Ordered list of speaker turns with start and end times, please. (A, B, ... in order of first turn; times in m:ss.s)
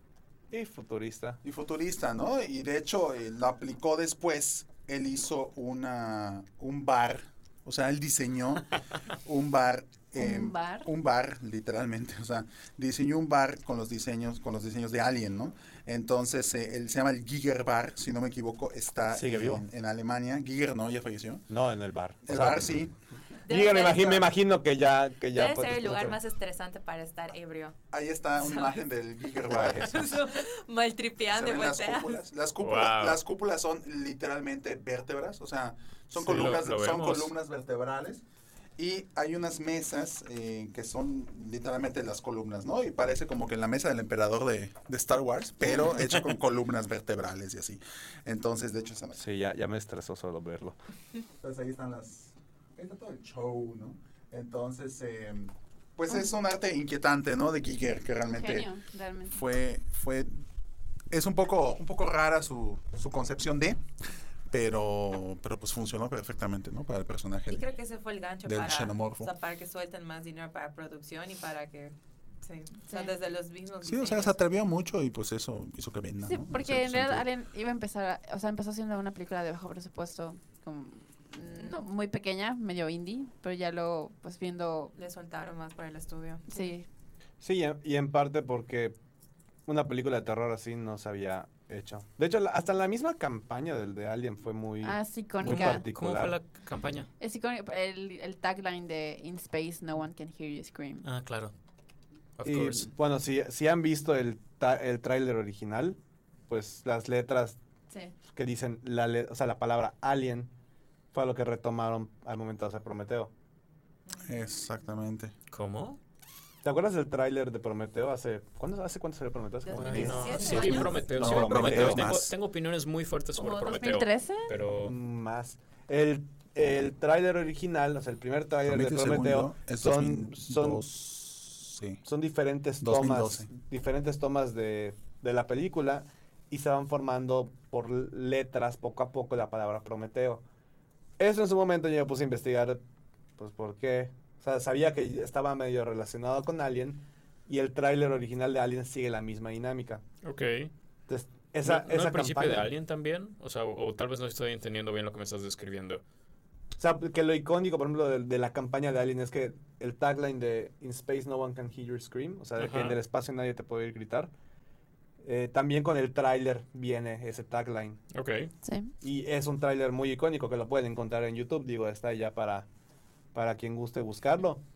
0:00.5-0:01.4 A
0:01.4-0:08.7 B
0:09.2-0:21.4 B
0:10.2-0:10.9 C
0:19.1-0:19.6 A
0:21.5-0:22.7 A
0:22.2-0:22.9 B
0:23.4-0:24.2 D
0:23.5-0:26.2 A
0:23.9-0:24.2 B
0:25.3-0:27.8 D
0:27.9-0:30.2 B
0:28.4-0:28.8 D
0:29.5-0:29.9 A
0:29.7-0:32.1 D
0:31.3-0:38.2 B
0:32.6-0:33.2 E
0:36.2-0:37.3 E
0:38.8-0:49.2 B
0:49.1-0:50.8 A
0:51.4-0:58.7 B
0:58.3-0:59.4 C
0:59.3-1:00.4 B
1:01.1-1:03.8 B
1:04.5-1:07.7 B
1:07.5-1:14.4 D
1:08.4-1:09.3 B
1:13.8-1:17.2 B
1:16.2-1:24.9 C
1:25.0-1:26.7 D
1:26.5-1:26.8 C
1:27.4-1:29.0 A
1:29.6-1:36.4 A
1:34.8-1:35.8 C
1:35.4-1:37.1 E
1:37.2-1:41.0 C
1:41.0-1:41.5 E
1:42.4-1:42.9 E
1:42.4-1:47.6 A
1:48.3-1:50.5 A
1:51.1-1:53.3 A
1:54.2-1:55.3 B
1:55.5-1:56.0 E
1:56.6-2:02.1 A
1:59.7-2:01.0 D
1:59.8-2:04.9 E
2:00.6-2:02.3 B
2:03.4-2:04.5 C
2:04.8-2:10.9 A
2:08.6-2:12.0 B
2:12.0-2:20.4 A
2:12.8-2:13.5 B
2:21.2-2:22.8 A
2:23.4-2:30.0 A
2:30.2-2:30.7 E
2:31.1-2:32.7 A
2:31.6-2:36.0 E
2:36.8-2:44.3 A
2:42.6-2:43.0 E
2:45.2-2:48.0 A
2:48.1-2:48.5 E
2:48.6-2:48.9 C
2:49.0-2:52.7 A
2:53.3-2:54.6 A